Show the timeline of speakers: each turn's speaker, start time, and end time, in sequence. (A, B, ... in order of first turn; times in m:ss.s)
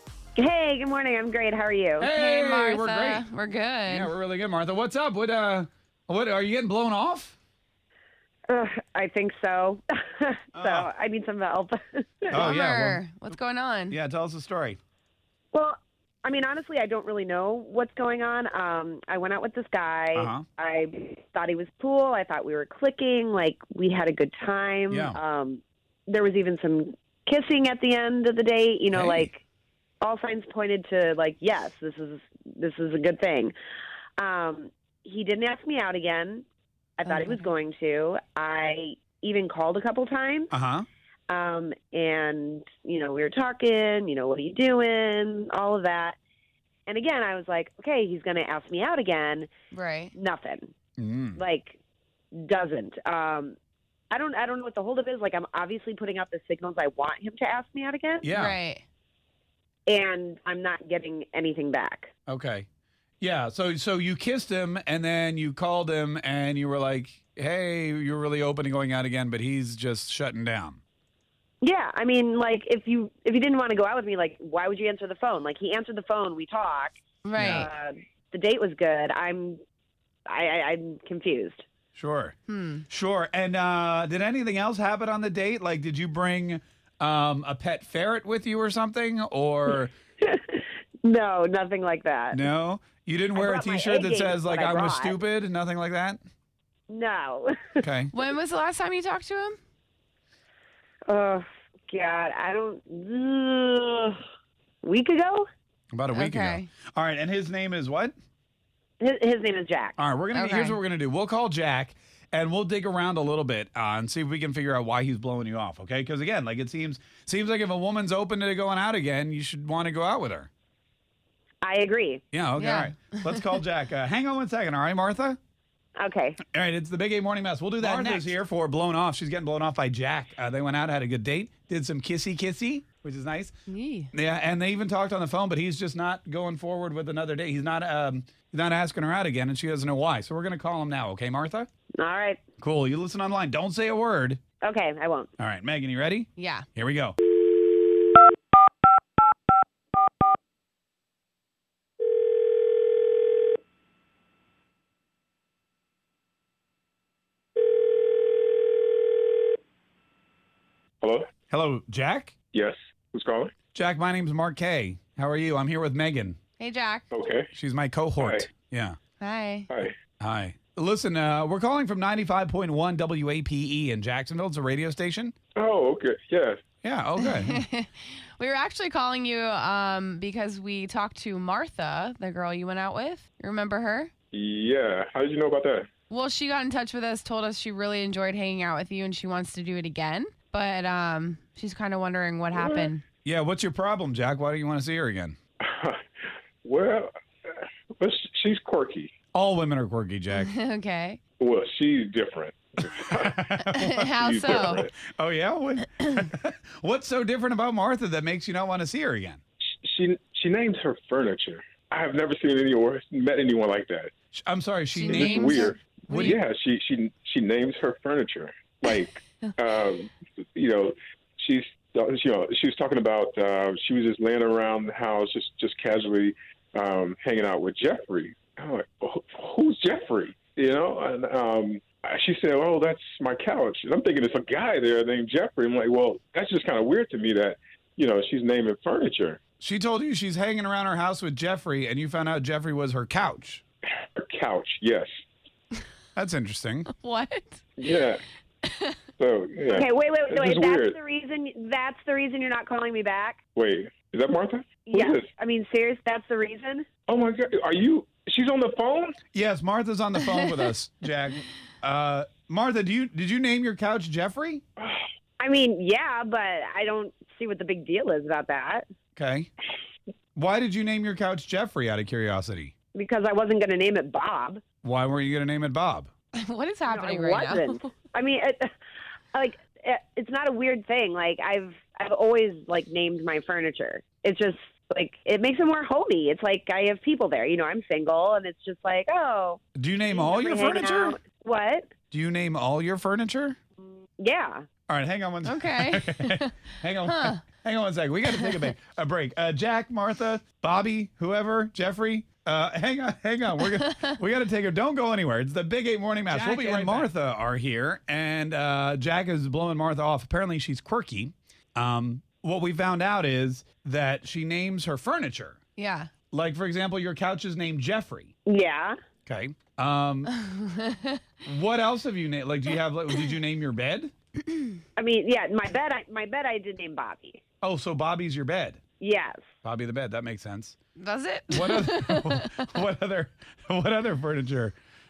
0:00.4-0:02.1 A
0:02.0-0:03.3 B
0:02.1-0:04.1 C
0:03.9-0:07.4 B
0:08.5-0:12.5 A
0:10.6-0:10.9 B
0:12.3-0:13.0 B
0:12.4-0:14.0 C
0:13.9-0:14.8 B
0:15.5-0:29.4 A
0:20.2-0:20.4 B
0:24.9-0:25.2 B
0:28.9-0:29.3 B
0:30.0-0:33.5 A
0:34.2-0:36.4 A
0:37.0-0:40.5 A
0:37.1-0:37.4 C
0:40.5-0:40.9 B
0:41.3-0:46.2 A
0:46.9-0:49.5 A
0:49.7-0:50.1 C
0:50.1-0:50.7 A
0:51.0-0:51.4 B
0:51.4-0:51.8 A
0:52.3-0:53.6 A
0:54.1-0:58.3 A
0:58.2-0:58.6 B
0:58.3-0:58.8 C
0:59.9-1:02.1 A
1:02.3-1:02.7 B
1:03.2-1:10.8 B
1:11.6-1:19.6 A
1:17.2-1:17.7 C
1:17.4-1:17.7 B
1:20.3-1:21.6 A
1:22.0-1:22.4 B
1:22.5-1:22.8 C
1:22.9-1:29.9 B
1:30.2-1:32.4 A
1:32.3-1:36.2 B
1:33.3-1:35.2 A
1:36.9-1:37.9 A
1:37.8-1:38.1 B
1:38.1-1:39.6 C
1:41.1-1:44.2 A
1:44.8-1:45.5 A
1:45.9-1:48.1 B
1:46.1-1:46.7 C
1:49.0-1:50.0 A
1:50.0-2:00.5 B
1:50.3-1:50.8 C
2:01.6-2:02.2 A
2:02.3-2:05.4 B
2:02.6-2:03.5 C
2:06.0-2:06.4 A
2:06.5-2:13.5 B
2:07.8-2:08.3 C
2:13.7-2:14.1 C
2:14.1-2:21.7 B
2:22.0-2:22.4 A
2:22.6-2:24.4 B
2:24.6-2:25.3 A
2:25.4-2:27.2 B
2:26.4-2:26.7 C
2:41.0-2:41.3 D
2:41.5-2:42.4 B
2:42.5-2:43.5 D
2:43.7-2:46.4 B
2:46.6-2:47.1 C
2:47.1-2:47.5 D
2:47.5-2:49.0 B
2:48.2-2:48.5 D
2:49.2-2:49.7 C
2:49.7-2:49.9 D
2:50.2-2:55.3 B
2:55.6-2:56.6 D
2:56.8-2:57.6 B
2:57.2-3:04.1 C
3:04.3-3:05.9 D
3:06.1-3:13.0 C
3:12.6-3:12.9 D
3:13.2-3:15.4 B
3:15.6-3:19.1 D
3:19.3-3:20.5 B
3:20.3-3:21.2 C
3:21.4-3:24.9 D
3:23.2-3:24.0 B
3:23.7-3:24.8 C
3:24.7-3:29.4 B
3:29.8-3:34.1 D
3:34.3-3:36.4 B
3:34.9-3:36.4 C
3:35.0-3:59.4 D
3:59.6-4:03.6 B
4:04.2-4:05.1 D
4:06.2-4:06.9 B
4:06.9-4:07.6 C
4:07.8-4:08.2 D
4:08.7-4:09.0 C
4:09.2-4:11.0 D
4:09.7-4:13.4 A
4:13.6-4:15.3 D
4:14.8-4:16.9 A
4:17.1-4:19.2 D
4:19.3-4:24.6 B
4:25.4-4:28.9 A
4:29.2-4:29.5 B
4:30.4-4:32.7 B
4:32.9-4:34.6 A
4:34.8-4:36.1 B
4:36.3-4:37.9 C
4:36.9-4:38.7 A
4:39.3-4:51.9 A
4:49.8-4:51.2 B
4:52.1-4:53.6 B
4:54.2-4:54.6 A
4:54.9-5:15.6 B
4:55.4-4:57.4 C
4:58.3-4:58.7 C
5:03.7-5:04.0 C
5:06.3-5:07.1 C
5:15.8-5:16.1 C
5:16.3-5:18.3 B
5:18.5-5:19.0 A
5:19.3-5:20.3 B
5:20.5-5:21.2 C
5:21.4-5:24.1 B
5:25.0-5:27.4 A
5:27.6-5:28.8 B
5:29.0-5:29.4 A
5:29.6-5:30.8 B
5:31.0-5:32.6 C
5:31.5-5:34.8 B